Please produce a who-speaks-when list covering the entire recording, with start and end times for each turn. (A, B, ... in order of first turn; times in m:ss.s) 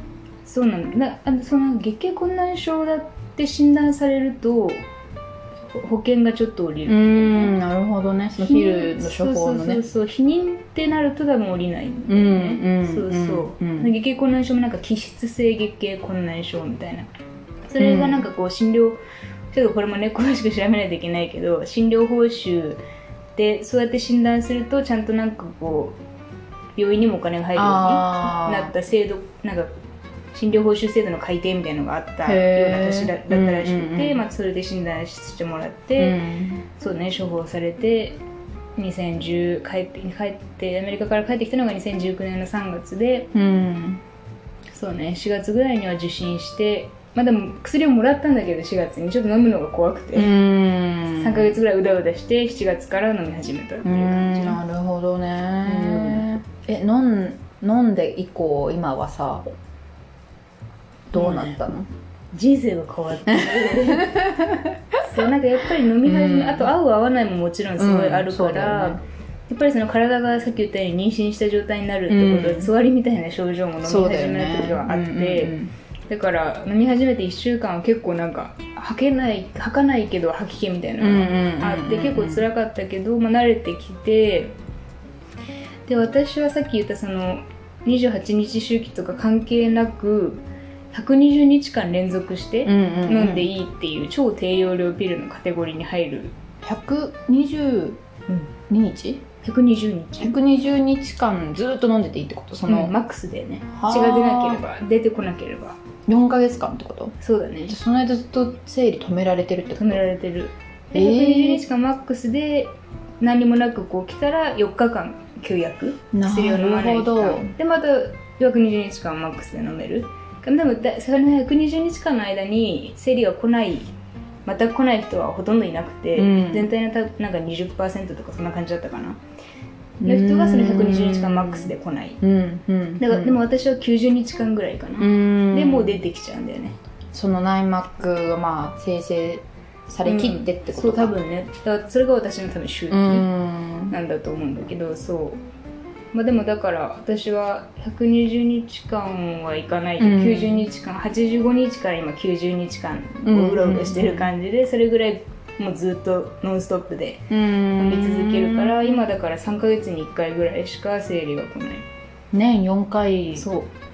0:00.4-0:04.9 A
0:05.7-0:07.5 A
0:06.9-0:09.8 B
0:08.4-0:17.1 A
0:12.1-0:13.9 B
0:17.7-0:19.0 A
0:17.8-0:18.3 B
0:19.5-0:22.8 A
0:23.4-0:26.0 A
0:26.8-0:29.7 A
0:27.6-0:28.7 B
0:30.3-0:36.2 A
0:32.2-0:34.2 B
0:36.0-0:36.6 B
0:36.8-0:38.2 A
0:38.8-0:43.3 A
0:43.3-0:44.0 B
0:44.7-0:50.4 A
0:50.2-0:51.6 B
0:51.2-0:54.6 A
0:53.8-0:59.5 B
0:55.6-0:56.2 A
1:01.1-1:01.9 B
1:01.2-1:01.6 A
1:02.3-1:04.2 A
1:03.3-1:04.8 B
1:05.0-1:15.6 A
1:06.0-1:06.7 B
1:07.8-1:09.0 B
1:12.1-1:12.7 B
1:13.8-1:15.7 B
1:16.1-1:24.6 A
1:21.0-1:22.5 B
1:25.9-1:36.3 A
1:32.6-1:33.5 B
1:36.6-1:38.0 B
1:38.7-1:39.2 B
1:39.4-1:40.3 A
1:40.2-1:42.9 B
1:42.7-1:45.8 A
1:43.8-1:44.6 B
1:46.1-1:47.1 B
1:47.2-1:47.8 A
1:47.7-1:50.0 B
1:49.8-2:03.9 A
1:50.9-1:51.6 B
1:56.1-1:57.5 B
2:04.5-2:09.2 A
2:06.2-2:06.7 B
2:10.0-2:13.4 B
2:10.0-2:12.2 A
2:13.0-2:16.8 A
2:15.0-2:16.0 B
2:17.1-2:21.2 B
2:20.0-2:23.3 A
2:22.9-2:24.0 B
2:23.9-2:25.4 A
2:26.1-2:41.8 A
2:30.0-2:30.6 B
2:33.2-2:34.3 B
2:37.3-2:39.0 B
2:42.3-2:43.5 B
2:43.4-2:43.7 A